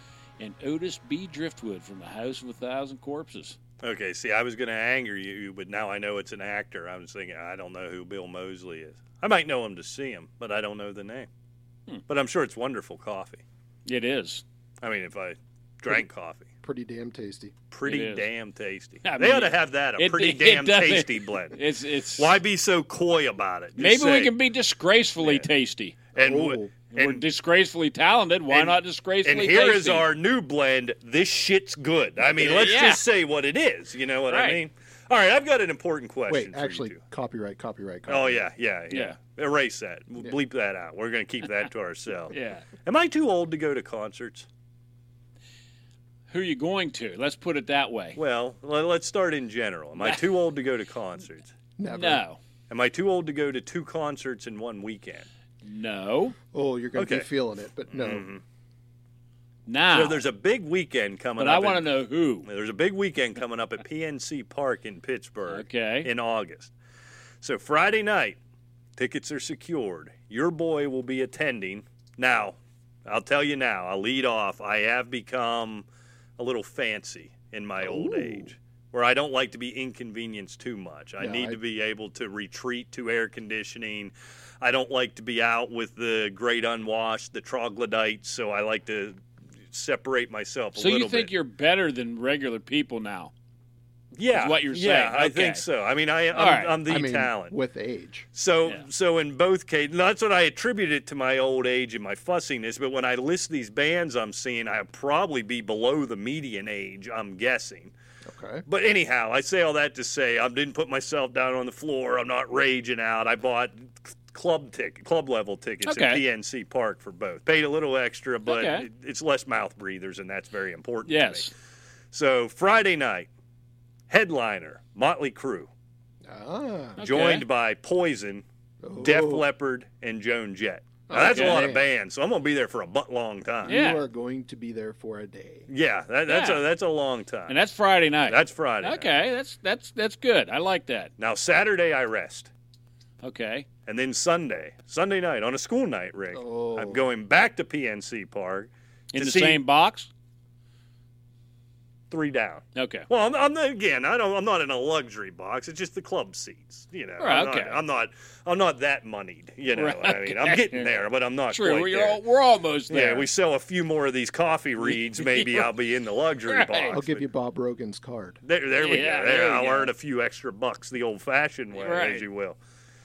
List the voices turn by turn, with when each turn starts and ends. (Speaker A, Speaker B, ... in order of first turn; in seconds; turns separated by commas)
Speaker A: 0.4-3.6, Speaker B: 3.8-11.3, Speaker B: 12.1-13.4, Speaker A: 13.9-14.4, Speaker B: 14.8-16.5, Speaker C: 16.6-17.6, Speaker B: 17.7-21.6, Speaker A: 17.9-18.3, Speaker A: 19.0-22.4, Speaker B: 22.2-24.3, Speaker A: 23.8-26.0, Speaker B: 25.2-25.5, Speaker B: 26.1-27.2, Speaker C: 26.2-26.7, Speaker A: 26.9-30.1, Speaker B: 28.5-37.0, Speaker A: 32.3-33.0, Speaker A: 34.3-34.6, Speaker C: 36.3-38.5, Speaker B: 38.1-44.5, Speaker A: 38.9-39.2, Speaker A: 42.3-42.7, Speaker A: 46.3-48.2, Speaker B: 48.2-51.5, Speaker C: 51.8-52.2, Speaker A: 51.9-52.4, Speaker B: 52.7-55.3, Speaker A: 55.6-56.4, Speaker C: 56.5-58.3, Speaker B: 57.0-57.3, Speaker B: 57.9-58.4, Speaker A: 59.7-60.2, Speaker B: 59.9-61.9, Speaker A: 61.4-62.5, Speaker B: 62.5-66.7, Speaker A: 65.5-66.1, Speaker B: 67.4-68.4, Speaker B: 69.0-75.9, Speaker B: 76.4-89.2, Speaker C: 77.8-78.5, Speaker C: 81.2-81.6, Speaker B: 89.7-91.3, Speaker A: 90.8-93.3, Speaker B: 94.1-97.6, Speaker A: 94.3-95.7, Speaker A: 96.3-96.8, Speaker C: 96.9-98.3, Speaker B: 98.3-107.9, Speaker C: 108.2-108.7, Speaker B: 108.7-121.5, Speaker A: 115.8-116.2, Speaker A: 118.5-118.9, Speaker A: 121.1-121.5, Speaker B: 122.1-123.3, Speaker B: 124.1-125.7, Speaker C: 126.2-127.0, Speaker A: 127.0-127.5, Speaker B: 127.0-128.4, Speaker C: 128.8-129.4, Speaker B: 129.0-133.8, Speaker C: 131.1-131.9, Speaker A: 131.2-131.6, Speaker C: 133.7-135.7, Speaker A: 133.7-134.0, Speaker B: 135.7-137.6, Speaker A: 136.3-136.6, Speaker A: 137.5-141.1, Speaker B: 138.3-139.1, Speaker B: 141.2-142.5, Speaker A: 143.2-143.7, Speaker B: 143.9-149.6, Speaker C: 146.3-147.1, Speaker A: 149.1-150.1, Speaker B: 152.1-162.2, Speaker A: 152.8-153.1, Speaker A: 157.2-157.8, Speaker A: 159.8-160.9, Speaker A: 161.5-163.3, Speaker B: 162.9-167.2, Speaker A: 164.9-165.7, Speaker A: 166.5-167.0, Speaker C: 166.9-168.4, Speaker B: 168.4-172.6, Speaker A: 168.8-169.9, Speaker A: 171.7-172.2